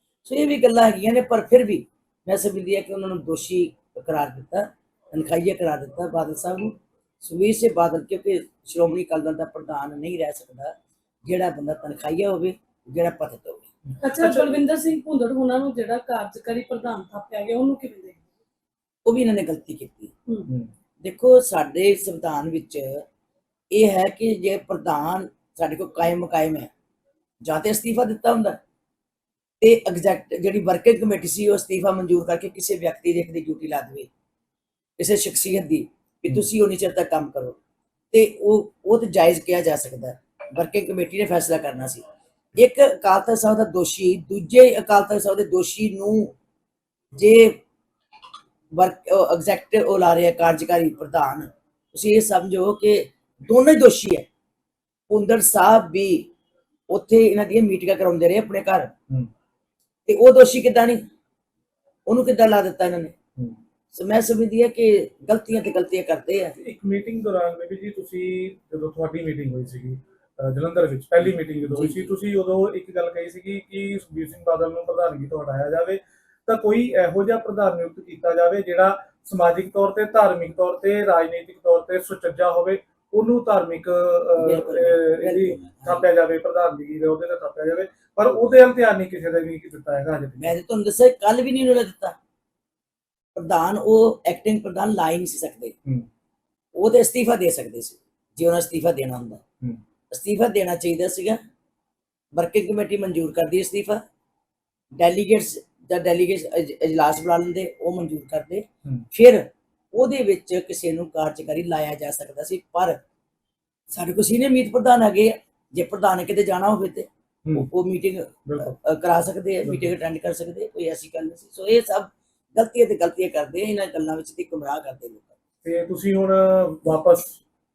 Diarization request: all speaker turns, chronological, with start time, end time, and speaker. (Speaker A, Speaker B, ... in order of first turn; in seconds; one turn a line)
Speaker A: 0.2-10.7
Speaker A: 11.2-13.7
Speaker B: 13.9-14.6
Speaker C: 14.0-18.2
Speaker A: 19.0-20.1
Speaker C: 20.3-20.5
Speaker A: 21.0-23.0
Speaker A: 23.7-26.7
Speaker A: 27.4-28.6
Speaker A: 29.6-34.1
Speaker A: 35.0-37.6
Speaker A: 38.1-42.0
Speaker A: 42.5-46.3
Speaker A: 47.1-47.6
Speaker A: 48.7-54.3
Speaker A: 55.1-56.3
Speaker A: 56.9-58.9
Speaker A: 60.1-61.0
Speaker A: 62.1-63.1
Speaker A: 63.9-66.5
Speaker B: 66.6-90.5
Speaker A: 71.6-72.1
Speaker A: 84.4-86.0
Speaker A: 90.4-92.2
Speaker A: 93.3-95.7
Speaker A: 96.7-99.4
Speaker A: 100.1-101.4
Speaker A: 102.3-104.0
Speaker A: 105.0-113.0
Speaker A: 113.9-125.3
Speaker B: 118.5-118.7
Speaker B: 125.6-127.4